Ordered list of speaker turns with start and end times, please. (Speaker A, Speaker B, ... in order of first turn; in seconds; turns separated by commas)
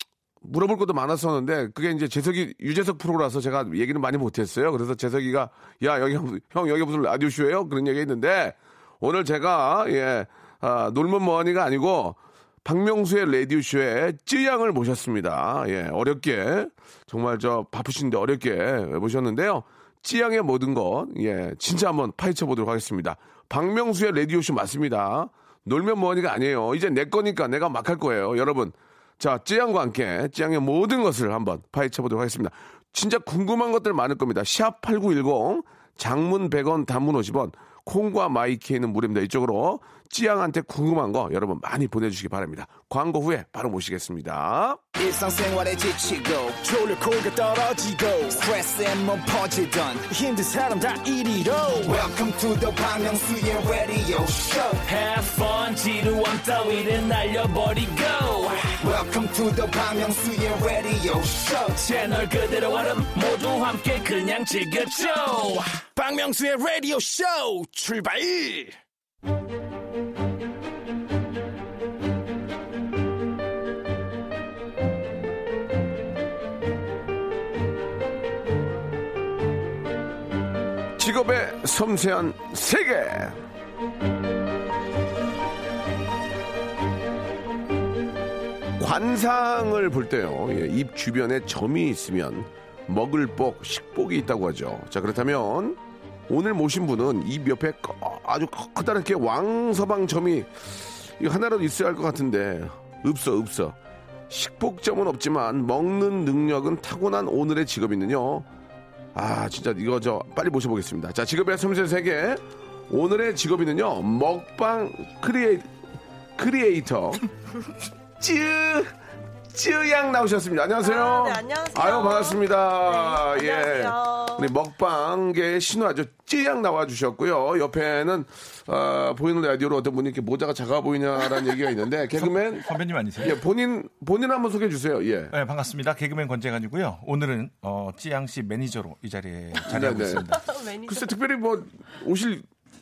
Speaker A: 0.4-44.8, Speaker B: 45.0-54.9, Speaker C: 54.9-58.8, Speaker B: 58.8-61.9, Speaker C: 61.8-65.8, Speaker B: 65.8-68.8, Speaker A: 81.0-83.4, Speaker A: 88.8-100.5, Speaker A: 101.2-103.8, Speaker A: 104.3-108.5, Speaker A: 109.2-115.7, Speaker A: 116.4-117.3, Speaker A: 118.2-119.0, Speaker A: 119.5-132.7, Speaker D: 120.8-124.5, Speaker E: 132.2-133.4, Speaker A: 133.2-135.3, Speaker E: 135.3-140.4, Speaker A: 139.6-140.3, Speaker D: 140.3-141.2, Speaker A: 140.9-142.5